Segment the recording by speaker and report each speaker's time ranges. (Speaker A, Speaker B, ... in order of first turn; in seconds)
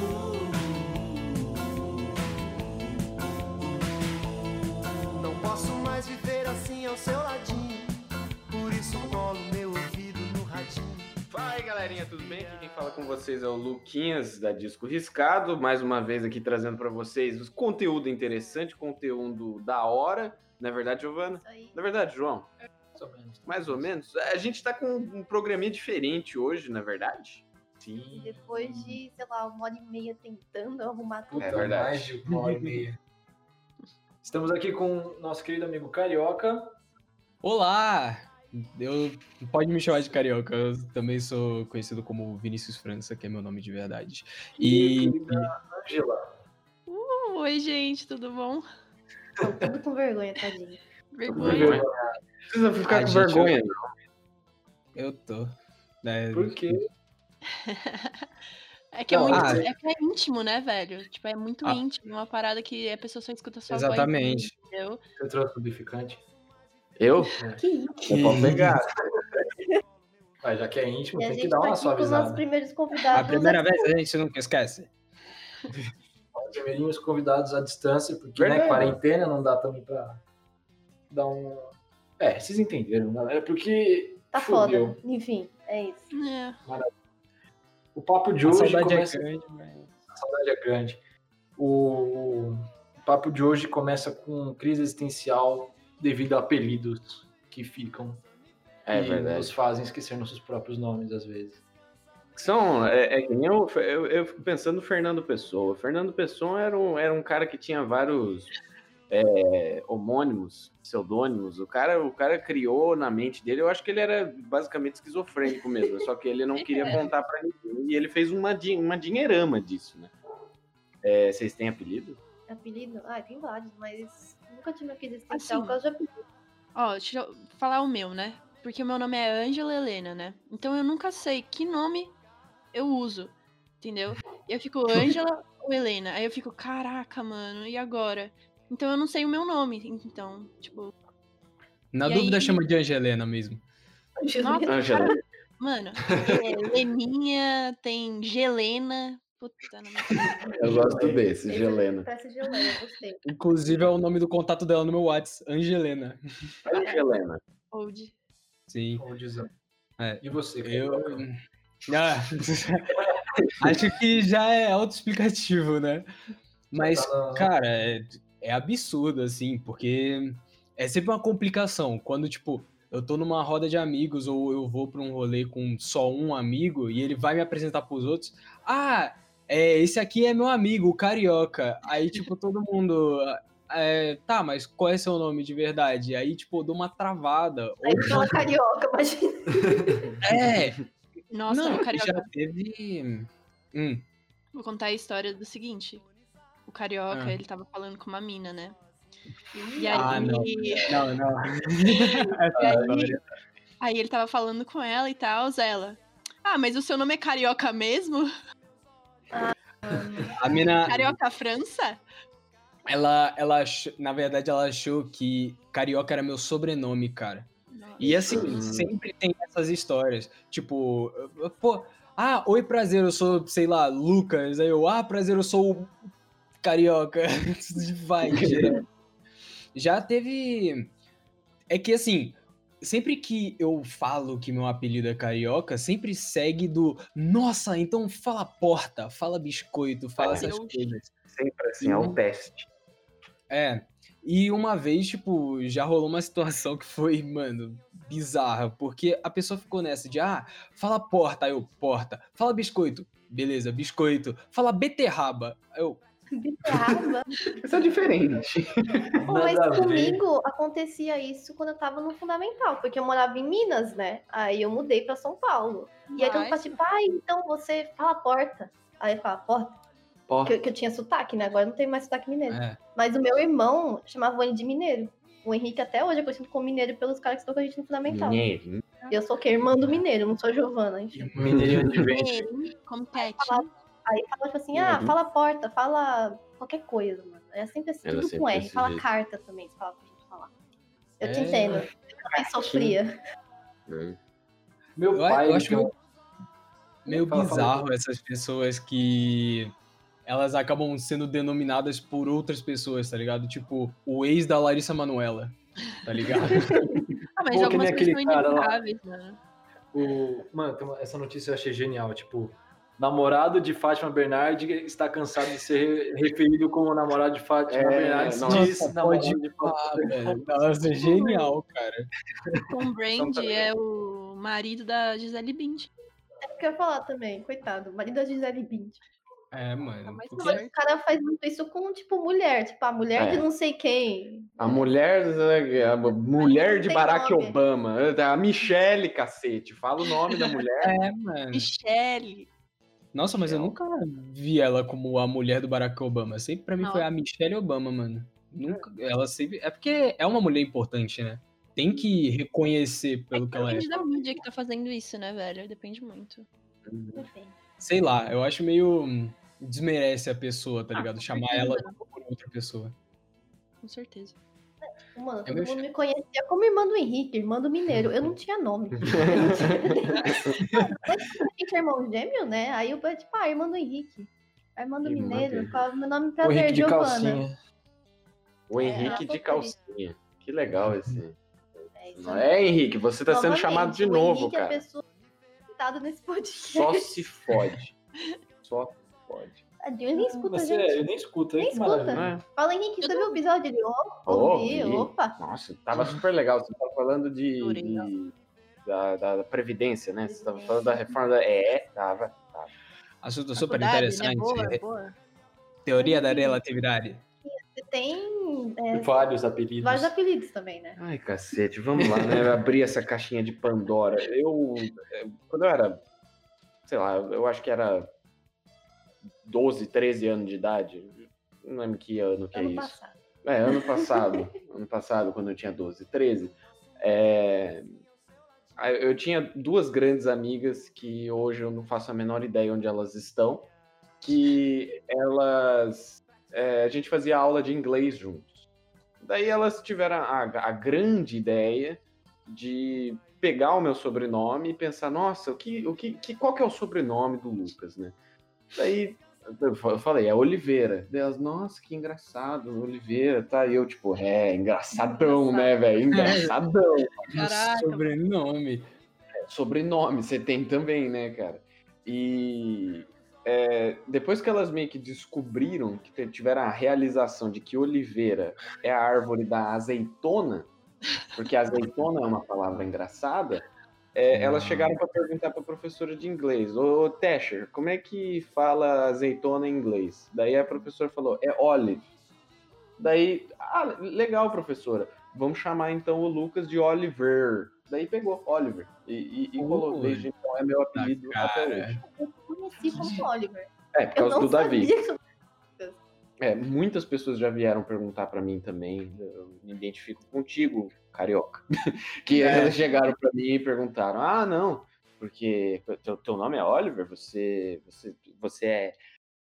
Speaker A: 5.2-7.9, 8.5-11.2
Speaker B: 11.3-22.5, 23.5-28.1, 31.4-32.1, 51.3-51.9, 52.5-53.8, 67.0-67.4, 68.1-68.9, 78.4-79.0, 98.9-99.5, 102.4-108.5, 109.1-120.1, 121.0-122.2, 144.7-145.2, 150.6-152.1, 156.7-157.4, 218.0-218.9, 228.3-228.8, 240.2-240.5, 241.3-242.7, 257.6-259.2, 270.3-270.6, 278.1-278.9, 281.6-281.9, 284.7-285.1, 288.1-289.1, 292.6-293.0, 293.9-294.2, 317.7-320.2, 333.2-333.5, 334.6-340.9, 343.4-343.7, 356.9-357.3, 369.0-369.6, 375.0-375.8, 378.7-384.8, 386.7-387.9, 388.6-389.6, 392.1-392.4, 394.3-398.3, 398.8-402.7, 411.0-416.0, 416.9-418.1, 419.4-427.9, 428.8-433.7, 434.2-438.7, 439.2-448.2, 448.7-457.3, 459.5-470.7, 471.3-482.1, 483.0-492.0, 493.9-494.9, 496.4-501.7, 502.2-509.0
Speaker C: 21.4-21.8, 28.1-31.8, 49.4-50.8, 67.6-68.1, 71.2-73.9, 84.3-86.1, 122.5-126.2, 144.2-144.8, 151.5-153.2, 187.8-190.1, 199.5-200.8, 209.3-210.4, 256.4-257.3, 259.2-269.8, 270.4-278.4, 279.1-281.3, 283.2-290.5, 291.2-293.2, 320.9-321.5, 326.6-329.0, 330.4-334.9, 336.3-337.6, 357.1-357.6, 365.1-377.4, 378.8-379.8, 382.0-382.5, 383.3-385.0, 385.7-387.3, 389.8-391.0, 391.6-395.4, 400.3-401.1, 406.0-406.6, 407.5-411.0, 422.5-423.2, 423.9-424.4, 492.0-495.2
Speaker D: 22.9-23.9, 28.0-29.0, 31.3-33.0, 34.2-36.8, 44.6-46.3, 51.3-52.2, 56.3-56.8, 59.1-59.7, 65.2-66.2, 70.4-72.5, 76.3-80.2, 81.1-85.0, 88.0-89.3, 90.1-91.0, 91.6-98.2, 98.9-101.6, 150.1-151.2, 159.0-159.5, 160.2-161.2, 166.8-167.5, 259.2-260.2, 281.3-282.5, 295.0-295.9, 297.1-297.9, 307.5-308.8, 309.9-320.4, 323.2-323.6, 376.4-377.6, 390.2-392.4, 408.9-410.1, 412.0-412.5
Speaker E: 32.3-32.8, 37.4-45.5, 52.9-53.5, 55.0-56.9, 59.3-59.7, 63.7-64.5, 68.1-68.8, 73.1-74.9, 88.5-89.9, 141.9-143.6, 153.3-156.2, 158.7-159.0, 160.0-166.1, 166.7-188.5, 190.2-190.8, 191.5-194.0, 197.1-197.4, 199.9-203.2, 210.4-211.2, 212.9-217.5, 218.0-226.0, 226.6-228.9, 229.8-230.9, 231.7-241.1, 241.8-242.2, 243.5-256.0, 272.5-272.8, 281.2-281.5, 291.2-291.9, 295.1-295.9, 297.1-299.7, 300.3-307.1, 318.4-322.1, 329.5-330.6, 340.8-341.7, 343.1-354.0, 357.8-362.9, 365.5-365.8, 370.2-370.9, 403.2-404.8, 405.9-407.2, 456.1-456.6, 457.3-458.9, 474.3-475.0, 489.6-490.3, 490.9-492.0, 492.9-493.2, 502.4-502.8
Speaker F: 46.9-48.7, 51.1-51.8, 57.6-58.2, 58.9-65.0, 86.1-86.6, 116.6-117.0, 125.3-125.8, 126.8-132.2, 132.7-140.9, 142.1-142.6, 144.4-150.6, 156.7-157.1, 157.7-158.1, 191.3-192.3, 194.5-196.0, 196.7-198.8, 199.8-200.9, 202.0-203.2, 203.8-208.3, 210.8-212.0, 217.7-218.5, 240.2-240.9, 266.1-266.8, 282.1-283.7, 307.4-309.4, 322.7-325.9, 330.0-330.8, 341.5-342.5, 346.8-347.1, 353.3-356.5, 361.0-362.0, 363.8-364.4, 378.9-379.2, 393.0-393.4, 397.6-398.1, 403.6-405.1, 454.9-456.4, 457.3-458.1